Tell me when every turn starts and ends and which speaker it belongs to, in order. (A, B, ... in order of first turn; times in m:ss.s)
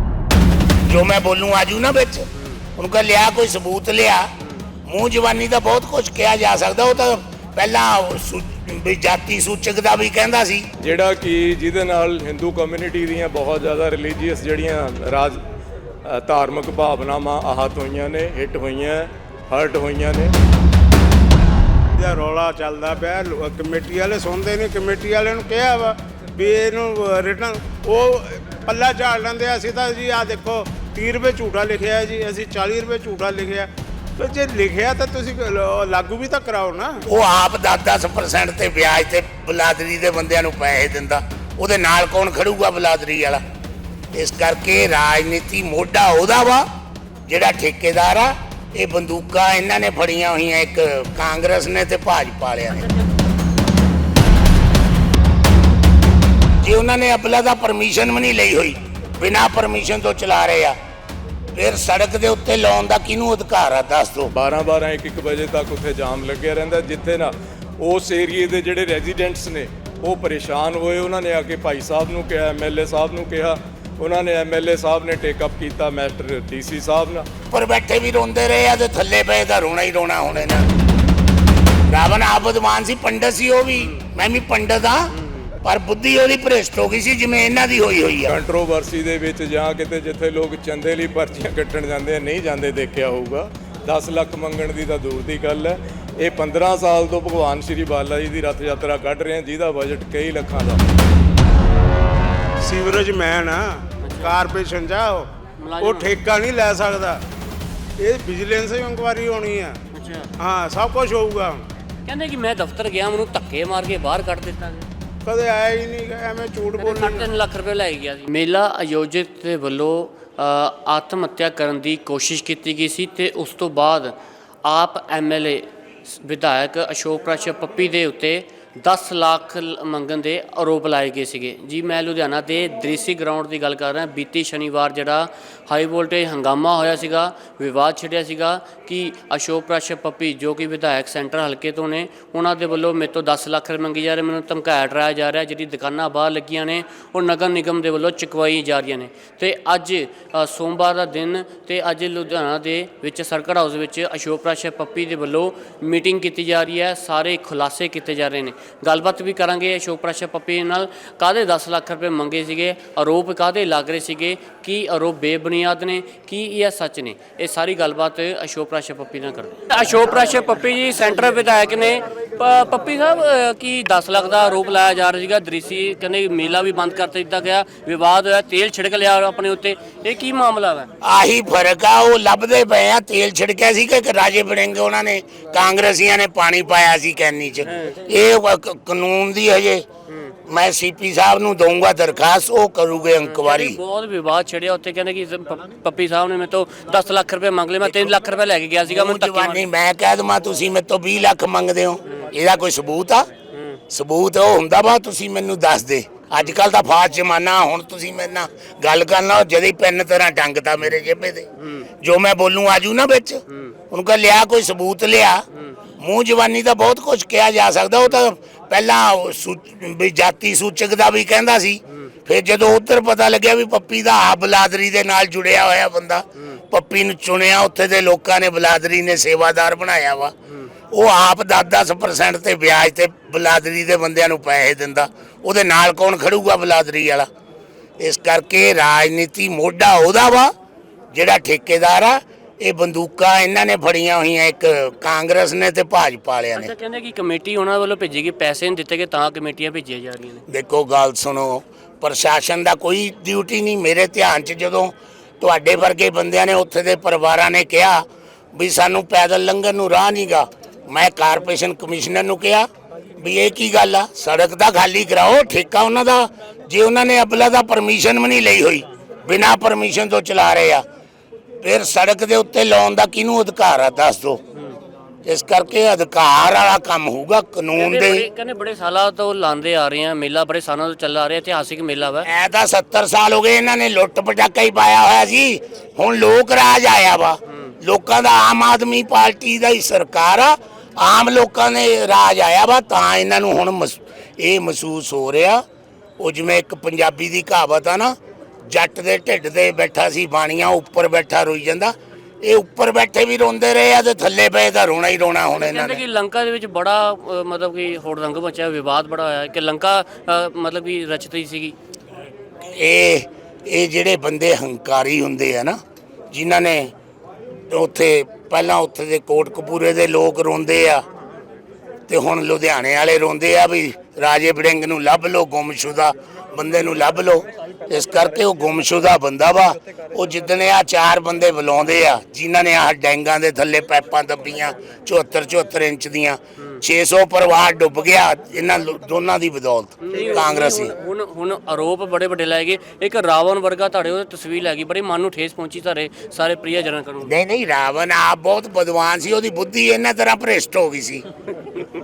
0:00.8-0:02.2 A
0:02.4-0:02.6 B
0:02.8-0:04.3 A
0:04.8-0:10.6 A
0:10.8-0:15.4 C
0:16.0-0:20.3 C
0:22.0-0:37.0 D
0:37.0-0:43.4 A
0:44.1-0:46.6 A
0:47.3-0:52.9 A
0:56.6-1:00.8 A
1:01.5-1:04.3 A
1:04.3-1:17.3 C
1:17.5-1:20.6 A
1:21.9-1:25.1 A
1:25.2-1:25.5 B
1:25.6-1:28.4 A
1:28.2-1:40.8 C
1:42.6-1:45.3 D
1:44.0-1:44.4 B
1:45.6-1:46.1 B
1:45.8-1:47.2 D
1:48.0-1:49.8 D
1:49.9-1:50.3 B
1:50.4-1:51.6 D
1:52.1-1:54.9 B
1:55.2-1:57.3 D
1:56.8-3:00.9 B
3:01.0-3:09.8 A
3:07.6-3:08.0 B
3:10.1-3:10.3 B
3:10.5-3:13.8 A
3:13.2-3:19.7 B
3:18.9-3:23.3 A
3:23.5-3:23.8 B
3:23.9-3:31.5 A
3:31.6-3:31.9 B
3:32.0-3:35.4 A
3:33.5-3:33.8 B
3:36.0-3:50.3 A
3:50.9-3:57.3 A
3:58.0-4:00.5 A
4:01.1-4:06.7 A
4:06.5-4:10.4 B
4:10.5-4:30.8 A
4:31.6-4:34.4 A
4:35.2-4:38.2 A
4:37.7-4:42.3 B
4:42.2-4:55.6 A
4:56.2-4:58.1 A
4:58.7-5:06.0 A
5:05.5-5:11.8 B
5:12.6-5:15.8 A
5:16.3-5:16.9 A
5:17.7-5:21.0 A
5:22.1-5:40.9 A
5:40.0-5:47.3 B
5:47.2-5:51.3 A